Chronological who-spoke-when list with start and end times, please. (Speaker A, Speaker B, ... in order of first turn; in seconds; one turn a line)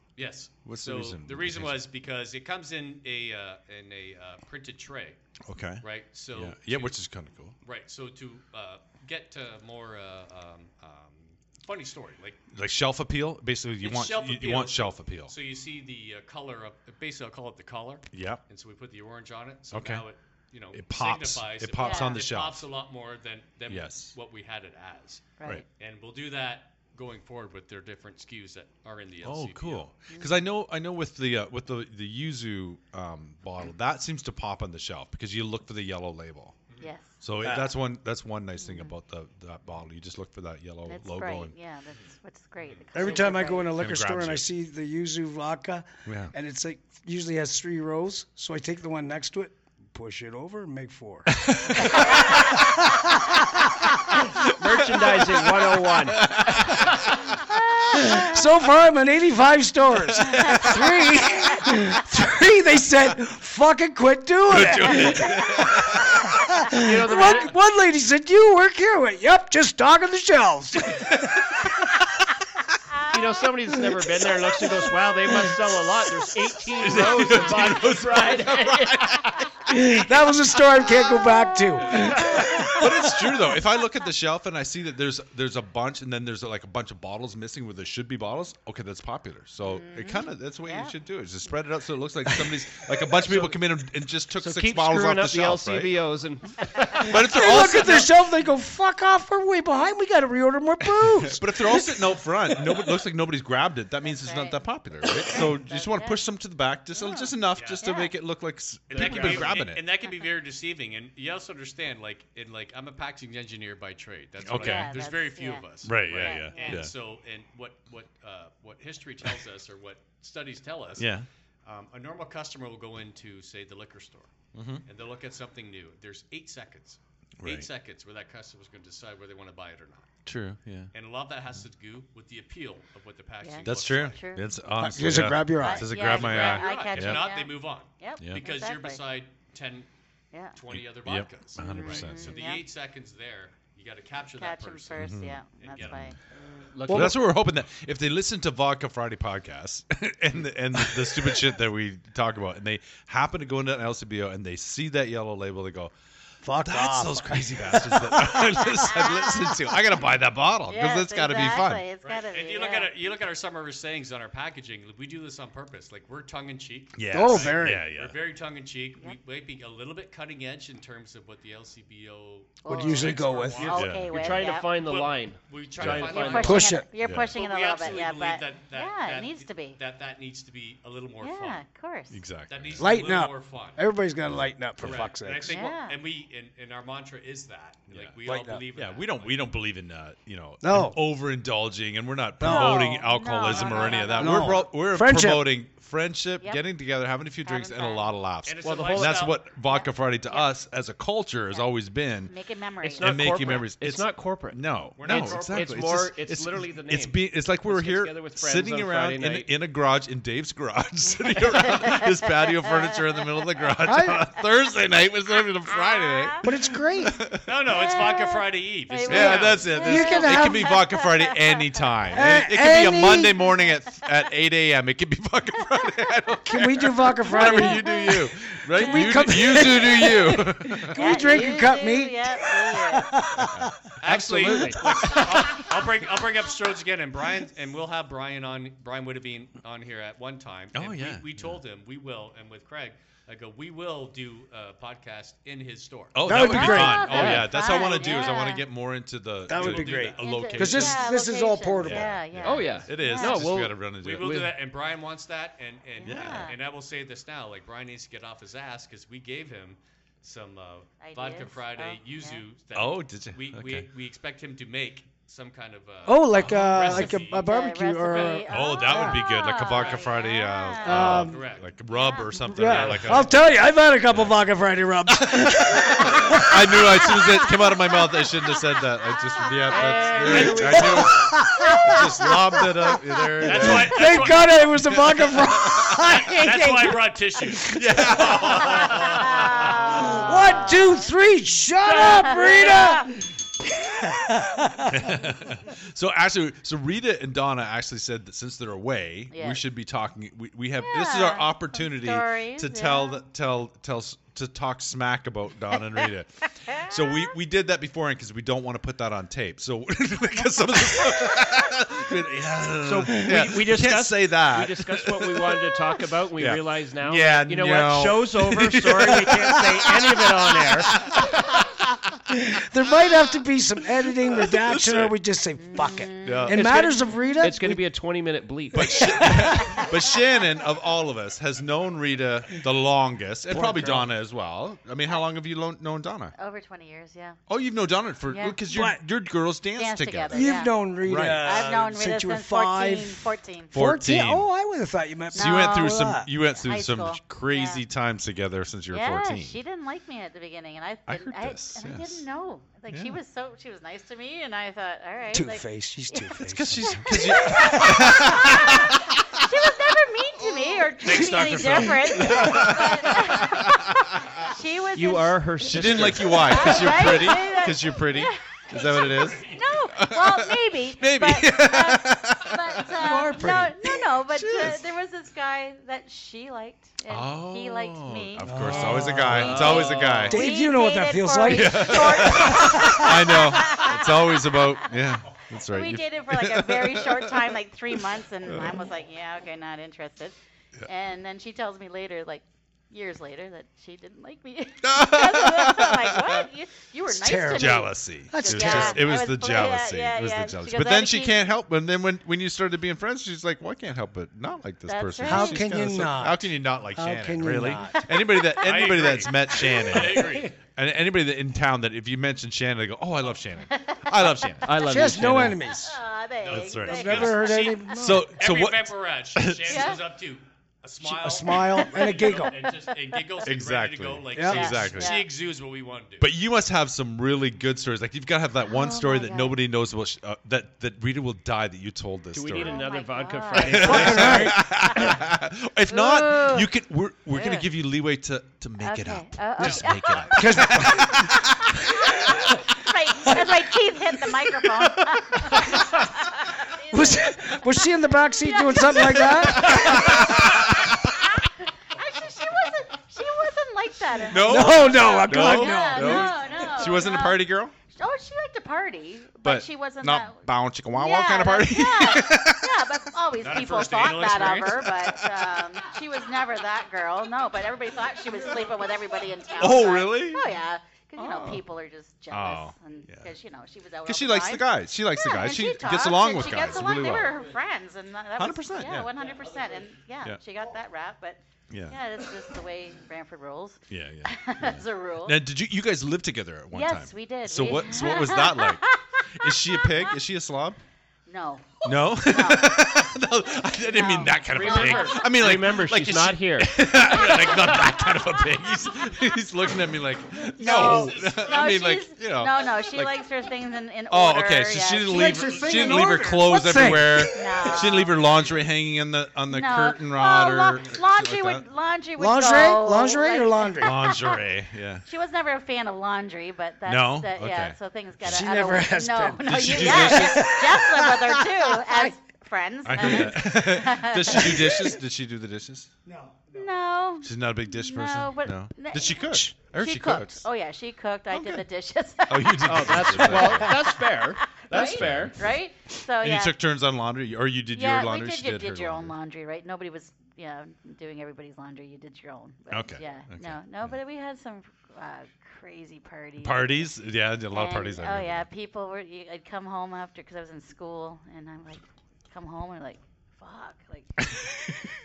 Speaker A: 0.1-5.2
Speaker B: 0.6-1.7
Speaker B: 5.5-7.5
Speaker A: 5.8-7.0
Speaker A: 7.6-12.4
Speaker B: 12.5-15.3
Speaker A: 13.8-29.9
Speaker B: 18.1-18.4
Speaker B: 19.7-20.0
Speaker B: 20.7-22.6
Speaker C: 21.8-22.2
Speaker B: 23.7-24.1
Speaker C: 25.4-25.6
Speaker B: 29.2-36.6
Speaker C: 30.1-30.3
Speaker C: 36.8-37.2
Speaker B: 37.2-41.5
Speaker C: 38.6-38.9
Speaker C: 40.9-43.7
Speaker D: 42.9-54.2
Speaker B: 43.7-44.4
Speaker B: 46.0-46.3
Speaker B: 51.4-52.2
Speaker C: 51.8-52.5
Speaker B: 54.1-55.5
Speaker E: 54.4-56.3
Speaker B: 56.1-57.2
Speaker C: 57.5-58.4
Speaker D: 57.9-71.2
Speaker C: 60.2-60.8
Speaker B: 60.3-60.7
Speaker B: 64.5-66.3
Speaker E: 66.7-67.5
Speaker C: 72.9-73.2
Speaker E: 73.1-79.4
Speaker B: 76.8-79.5
Speaker D: 79.7-83.3
Speaker C: 81.1-82.8
Speaker B: 82.0-96.0
Speaker C: 89.7-90.9
Speaker E: 93.2-93.6
Speaker E: 94.4-97.4
Speaker B: 97.0-98.1
Speaker D: 97.1-102.8
Speaker B: 101.2-109.8
Speaker C: 104.0-104.6
Speaker C: 105.2-106.2
Speaker C: 107.0-108.1
Speaker A: 107.5-107.8
Speaker E: 108.9-109.6
Speaker A: 108.9-121.1
Speaker B: 114.4-115.0
Speaker C: 114.5-116.8
Speaker B: 115.8-116.9
Speaker B: 121.0-121.3
Speaker A: 121.6-124.3
Speaker B: 124.5-124.8
Speaker A: 124.8-130.1
Speaker B: 127.4-127.7
Speaker B: 130.2-130.9
Speaker A: 130.9-134.2
Speaker C: 133.4-134.4
Speaker B: 133.6-137.2
Speaker D: 134.8-135.9
Speaker C: 135.6-139.0
Speaker A: 136.0-139.9
Speaker A: 140.5-146.0
Speaker B: 140.7-142.3
Speaker C: 141.6-142.6
Speaker C: 144.4-146.2
Speaker B: 144.9-146.1
Speaker E: 146.7-147.2
Speaker D: 146.8-147.2
Speaker B: 146.9-155.9
Speaker D: 151.1-151.4
Speaker D: 156.4-158.7
Speaker B: 156.6-161.8
Speaker C: 158.9-159.5
Speaker C: 160.7-162.9
Speaker A: 162.0-181.6
Speaker B: 166.9-168.1
Speaker D: 167.1-167.8
Speaker C: 172.6-174.7
Speaker D: 172.7-173.7
Speaker E: 173.6-176.7
Speaker B: 173.8-174.1
Speaker B: 175.8-176.2
Speaker C: 176.1-179.8
Speaker D: 176.4-176.9
Speaker B: 177.0-177.3
Speaker C: 181.2-182.2
Speaker B: 182.1-182.9
Speaker A: 182.5-183.8
Speaker D: 182.8-185.6
Speaker A: 184.8-189.5
Speaker C: 185.5-186.0
Speaker B: 187.9-188.1
Speaker D: 188.2-188.6
Speaker B: 188.7-202.3
Speaker D: 190.6-191.0
Speaker D: 192.4-193.0
Speaker C: 192.4-194.6
Speaker A: 193.6-194.0
Speaker D: 194.2-195.5
Speaker C: 197.4-198.1
Speaker A: 198.4-199.4
Speaker E: 198.6-199.3
Speaker C: 199.6-200.5
Speaker C: 202.3-203.6
Speaker E: 202.8-209.5
Speaker B: 203.0-216.4
Speaker A: 204.9-206.1
Speaker C: 211.3-213.4
Speaker D: 213.8-214.2
Speaker C: 215.7-216.4
Speaker D: 216.4-217.1
Speaker B: 217.0-217.4
Speaker A: 217.4-219.7
Speaker C: 217.7-221.9
Speaker B: 219.1-230.9
Speaker D: 219.8-220.8
Speaker D: 222.1-223.4
Speaker D: 226.4-228.2
Speaker C: 227.3-229.7
Speaker D: 228.7-235.7
Speaker C: 230.9-233.1
Speaker B: 233.3-233.7
Speaker A: 234.0-246.3
Speaker E: 234.0-235.6
Speaker B: 240.7-241.6
Speaker B: 246.1-251.1
Speaker D: 246.2-247.3
Speaker C: 246.3-248.7
Speaker E: 247.0-247.6
Speaker A: 247.8-248.5
Speaker D: 249.5-252.2
Speaker A: 249.5-250.2
Speaker C: 250.2-253.5
Speaker B: 251.8-254.5
Speaker E: 252.4-254.5
Speaker A: 254.0-267.5
Speaker C: 256.0-256.5
Speaker B: 256.1-256.5
Speaker C: 261.0-262.4
Speaker B: 262.7-263.9
Speaker D: 266.1-269.2
Speaker B: 266.4-266.9
Speaker C: 266.8-271.1
Speaker A: 268.0-268.4
Speaker B: 268.5-273.4
Speaker A: 269.6-270.1
Speaker D: 270.8-271.4
Speaker A: 270.9-271.7
Speaker C: 271.9-272.4
Speaker D: 272.4-278.0
Speaker A: 272.6-273.3
Speaker B: 274.1-274.4
Speaker B: 275.1-286.0
Speaker E: 279.7-281.3
Speaker A: 279.8-280.6
Speaker D: 280.2-289.0
Speaker A: 283.4-290.2
Speaker B: 287.6-289.7
Speaker C: 289.0-291.1
Speaker D: 289.7-295.2
Speaker C: 291.9-293.1
Speaker B: 294.9-315.7
Speaker C: 299.3-299.6
Speaker C: 300.8-303.2
Speaker C: 306.7-307.1
Speaker E: 312.8-320.9
Speaker B: 316.4-320.1
Speaker B: 320.9-322.0
Speaker D: 322.3-327.8
Speaker B: 324.3-325.1
Speaker C: 325.6-326.5
Speaker B: 326.2-326.6
Speaker E: 326.5-329.3
Speaker B: 328.7-336.3
Speaker D: 329.0-329.8
Speaker D: 333.5-334.1
Speaker C: 336.3-337.4
Speaker B: 337.5-341.6
Speaker C: 338.3-338.6
Speaker D: 338.7-339.0
Speaker C: 339.7-343.7
Speaker D: 340.3-346.3
Speaker B: 343.7-344.5
Speaker C: 345.3-347.8
Speaker B: 345.3-349.6
Speaker C: 348.9-384.9
Speaker B: 351.1-352.2
Speaker B: 352.9-353.2
Speaker D: 355.3-358.5
Speaker B: 356.4-359.4
Speaker B: 360.4-364.5
Speaker D: 361.6-362.7
Speaker E: 364.9-366.9
Speaker B: 365.6-373.1
Speaker A: 368.7-369.6
Speaker D: 373.0-373.9
Speaker B: 374.3-374.8
Speaker B: 377.1-380.4
Speaker D: 378.4-383.4
Speaker E: 379.3-380.3
Speaker B: 381.4-387.5
Speaker C: 385.6-390.3
Speaker B: 388.4-388.9
Speaker C: 390.9-401.5
Speaker B: 394.8-396.4
Speaker D: 397.1-399.2
Speaker B: 397.5-415.5
Speaker C: 404.9-405.8
Speaker D: 405.2-408.1
Speaker C: 407.9-408.6
Speaker A: 408.5-410.5
Speaker D: 410.1-410.4
Speaker C: 413.7-414.5
Speaker E: 414.6-415.6
Speaker D: 414.8-416.0
Speaker C: 415.7-417.7
Speaker A: 416.4-426.3
Speaker B: 416.5-417.4
Speaker D: 416.9-418.3
Speaker B: 417.9-419.9
Speaker C: 419.7-420.0
Speaker D: 421.0-422.6
Speaker C: 421.7-422.7
Speaker B: 423.4-425.2
Speaker D: 424.3-424.7
Speaker C: 424.5-425.3
Speaker B: 426.2-432.8
Speaker C: 428.6-429.6
Speaker E: 432.3-434.6
Speaker C: 432.5-435.2
Speaker B: 433.6-442.5
Speaker D: 433.8-434.6
Speaker C: 435.9-436.7
Speaker C: 437.3-437.7
Speaker C: 438.8-485.4
Speaker A: 439.6-440.3
Speaker D: 440.3-441.4
Speaker D: 441.9-442.5
Speaker D: 443.3-443.6
Speaker D: 445.5-445.8
Speaker D: 446.9-450.5
Speaker B: 449.1-451.1
Speaker B: 454.2-457.8
Speaker D: 454.3-456.4
Speaker B: 459.4-462.8
Speaker A: 463.4-464.9
Speaker B: 464.9-465.4
Speaker B: 469.6-470.4
Speaker B: 471.2-471.6
Speaker B: 472.3-473.3
Speaker B: 474.0-477.4
Speaker B: 478.4-479.1
Speaker B: 481.7-482.0
Speaker B: 483.9-490.8
Speaker C: 486.7-490.1
Speaker C: 491.3-492.9
Speaker B: 491.8-503.1
Speaker C: 493.8-495.2
Speaker E: 494.5-496.7
Speaker C: 497.1-498.2
Speaker C: 500.6-505.3
Speaker A: 500.6-501.8
Speaker B: 504.1-511.6
Speaker D: 505.0-508.1
Speaker A: 505.4-506.1
Speaker C: 507.3-508.2
Speaker C: 509.5-514.4
Speaker D: 512.2-514.0
Speaker B: 513.8-515.0
Speaker C: 515.0-524.8
Speaker B: 516.9-517.8
Speaker D: 518.2-522.1
Speaker B: 519.4-520.5
Speaker B: 522.8-525.9
Speaker D: 523.0-523.3
Speaker D: 524.3-525.0
Speaker D: 526.0-526.7
Speaker C: 526.5-536.5
Speaker B: 527.2-530.5
Speaker B: 531.3-531.6
Speaker B: 532.3-533.8
Speaker E: 532.6-535.4
Speaker B: 534.7-535.6
Speaker B: 536.2-539.1
Speaker C: 537.7-546.9
Speaker B: 542.7-544.0
Speaker B: 546.4-548.5
Speaker C: 547.5-554.1
Speaker B: 554.3-554.8